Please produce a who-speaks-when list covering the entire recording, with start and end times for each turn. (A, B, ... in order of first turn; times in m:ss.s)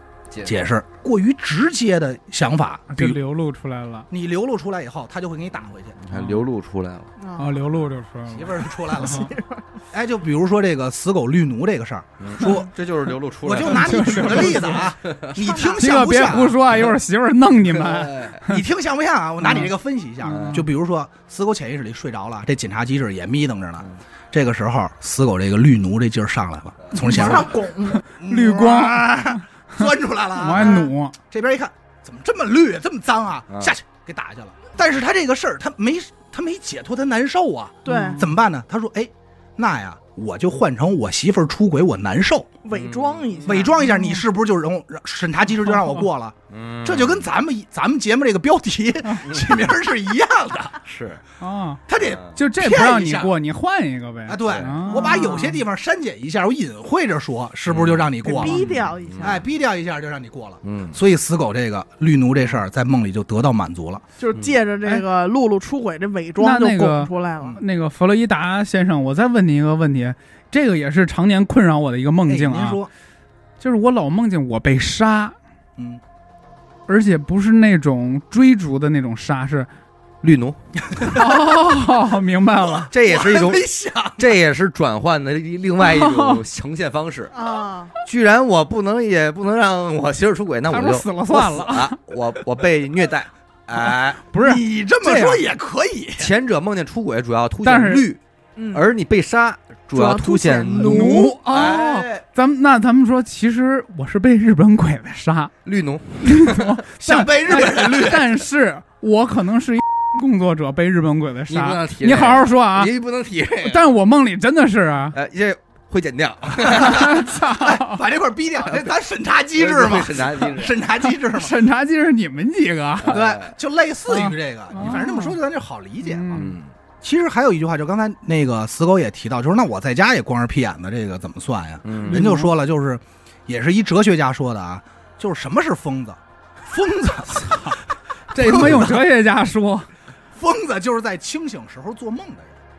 0:00.3-0:00.6 A
0:00.4-0:03.2 B
0:02.9-0:04.1 C
0:04.1-0:06.0 B
0:06.0-0:07.1 A
0:06.1-0:06.4 C
0:07.2-0:07.6 D
0:07.4-0:09.3 C
0:08.3-0:09.3 B
0:08.9-0:09.6 D
0:09.9-0:12.7 B
0:12.2-0:15.5 A
0:13.4-0:16.6 B
0:13.6-0:14.9 C
0:15.4-0:15.9 D
0:15.8-0:18.6 C
0:17.7-0:18.4 A
0:18.4-0:42.5 B
0:19.4-0:19.7 C
0:20.2-0:20.6 C
0:20.2-0:20.6 A
0:27.0-0:28.0 D
0:27.1-0:31.2 C
0:30.5-0:30.9 D
0:37.8-0:38.3 C
0:37.9-0:38.2 D
0:42.6-0:43.8 D
0:42.7-0:43.6 A
0:43.4-0:50.8 B
0:43.8-0:44.2 C
0:45.6-0:46.0 C
0:46.5-0:47.3 A
0:49.2-0:49.6 A
0:50.9-0:51.2 A
0:51.4-0:51.8 C
0:51.9-0:53.3 B
0:52.0-0:52.4 A
0:52.3-0:55.4 C
0:54.3-0:58.6 B
0:54.9-0:55.6 D
0:57.7-0:59.4 A
0:58.2-0:59.4 D
0:59.2-1:04.0 B
1:00.6-1:01.0 A
1:04.2-1:07.6 D
1:04.3-1:04.6 A
1:06.4-1:12.8 C
1:12.3-1:12.9 B
1:13.6-1:15.4 C
1:16.9-1:19.7 C
1:20.2-1:20.6 A
1:20.9-1:21.4 B
1:21.0-1:22.9 C
1:22.7-1:24.3 B
1:22.9-1:23.6 A
1:24.2-1:27.3 A
1:25.8-1:26.4 C
1:27.3-1:27.9 D
1:28.0-1:34.2 A
1:30.7-1:32.0 C
1:34.3-1:35.4 C
1:34.3-1:36.3 B
1:36.2-1:38.2 A
1:37.6-1:38.1 C
1:38.6-1:38.8 D
1:38.7-1:42.2 A
1:39.9-1:41.3 D
1:40.7-1:45.5 C
1:45.6-1:46.8 A
1:46.2-1:52.9 C
1:47.0-1:48.2 B
1:47.5-1:48.2 A
1:51.5-1:53.9 A
1:53.6-1:55.1 C
1:55.1-1:57.3 A
1:56.6-2:01.6 B
1:56.7-1:58.0 C
1:59.6-2:00.8 A
2:01.0-2:03.1 C
2:03.0-2:03.6 A
2:03.0-2:17.8 B
2:04.1-2:05.4 C
2:06.0-2:06.6 C
2:06.3-2:06.7 A
2:11.8-2:12.3 A
2:12.1-2:12.5 C
2:17.3-2:17.8 C
2:18.3-2:19.9 C
2:18.4-2:19.0 B
2:20.3-2:22.6 B